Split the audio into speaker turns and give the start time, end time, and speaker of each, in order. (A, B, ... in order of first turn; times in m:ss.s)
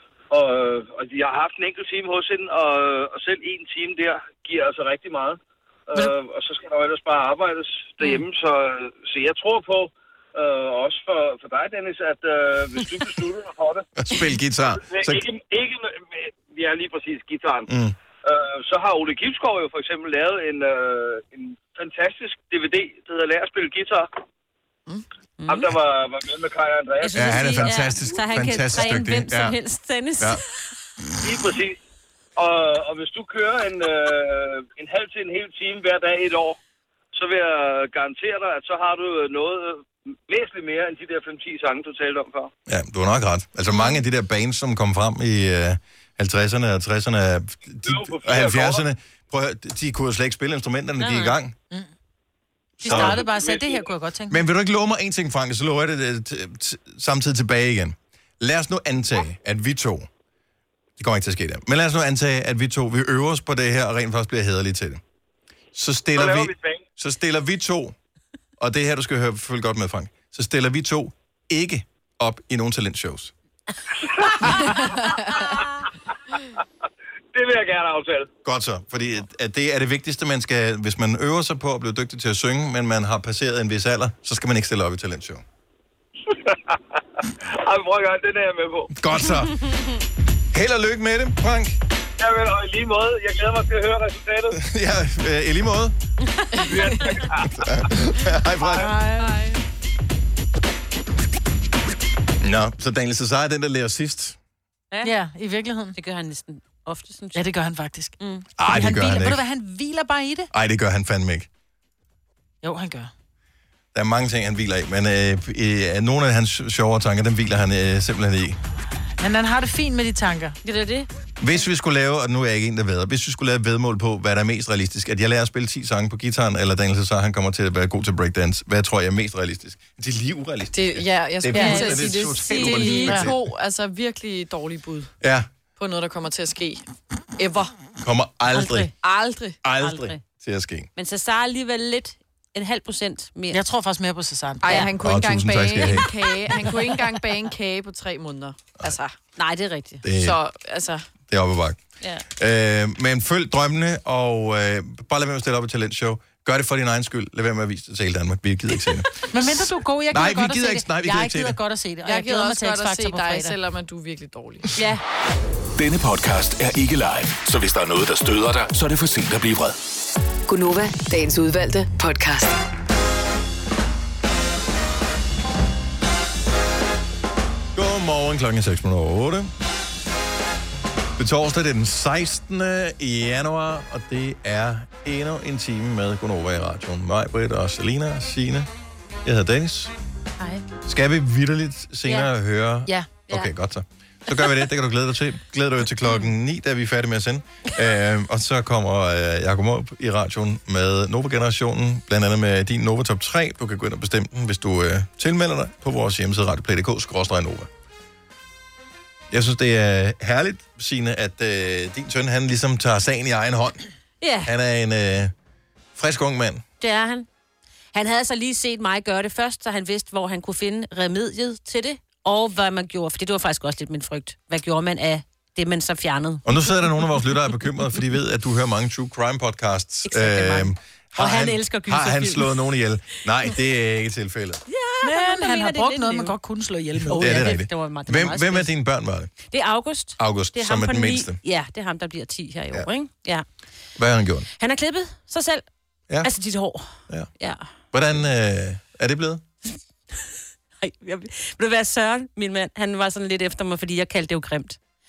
0:00.3-0:13.9 A
0:14.0-0:15.2 B
0:14.7-0:17.7 A
0:17.7-0:18.0 B
0:18.2-0:24.1 A
0:25.4-0:25.7 C
0:25.5-0:27.7 A
0:27.0-0:30.4 C
0:27.1-0:29.6 B
0:31.2-0:31.8 A
0:32.4-0:36.6 A
0:37.1-0:42.5 A
0:42.7-0:51.6 B
0:43.7-0:44.0 C
0:47.8-0:48.8 A
0:51.0-0:51.4 C
0:52.8-0:54.4 D
0:52.8-0:53.2 B
0:52.9-0:53.8 A
0:54.3-1:00.1 B
1:01.0-1:05.0 B
1:05.7-1:08.0 B
1:06.2-1:06.8 A
1:08.6-1:13.3 B
1:14.8-1:15.2 E
1:17.3-1:18.3 A
1:18.4-1:25.4 B
1:26.3-1:26.8 A
1:27.4-1:28.9 A
1:28.9-1:29.6 B
1:30.5-1:31.8 B
1:32.2-1:34.6 A
1:34.5-1:36.0 B
1:36.5-1:36.9 E
1:36.6-1:37.5 A
1:37.4-1:38.9 B
1:38.7-1:39.4 D
1:39.2-1:39.6 E
1:42.4-1:44.4 B
1:45.0-1:46.0 D
1:46.0-1:47.4 C
1:47.4-1:50.5 D
1:48.6-1:49.4 B
1:50.5-1:51.5 B
1:52.6-1:53.1 D
1:53.9-1:58.6 B
1:59.2-2:00.6 D
2:00.6-2:01.1 C
2:01.4-2:13.4 B
2:10.7-2:15.1 E
2:11.5-2:13.2 C
2:15.2-2:15.5 B
2:15.8-2:16.8 E
2:17.4-2:17.7 E
2:18.0-2:18.9 B
2:18.5-2:18.9 C
2:19.0-2:19.6 E
2:19.6-2:20.9 B
2:19.8-2:20.2 C
2:21.0-2:23.6 C
2:23.5-2:24.8 D
2:24.6-2:29.1 E
2:24.6-2:24.9 C
2:25.0-2:26.1 B
2:29.4-2:30.0 C
2:30.0-2:30.4 B
2:30.2-2:31.0 E
2:31.3-2:31.8 B
2:32.4-2:41.6 B
2:39.3-2:43.6 D
2:42.1-2:44.7 E
2:44.8-2:45.0 C
2:45.8-2:49.8 F
2:50.5-2:52.6 G
2:57.8-2:59.5 B
3:01.2-3:08.7 B
3:09.2-3:09.9 B
3:10.8-3:27.7 B
3:29.3-3:33.8 B
3:34.2-3:34.5 C
3:34.4-3:35.3 B
3:36.0-3:36.6 B
3:36.8-3:37.3 C
3:37.9-3:47.3 C
3:46.4-3:54.6 B
3:50.1-3:52.6 C
3:54.7-3:56.4 C
3:55.0-3:57.4 D
3:57.0-3:58.7 C
3:57.2-3:59.3 B
3:59.5-4:03.4 C
4:00.2-4:01.4 B
4:04.0-4:04.5 B
4:04.6-4:05.6 C
4:06.2-4:07.7 C
4:07.9-4:09.4 B
4:10.8-4:14.8 C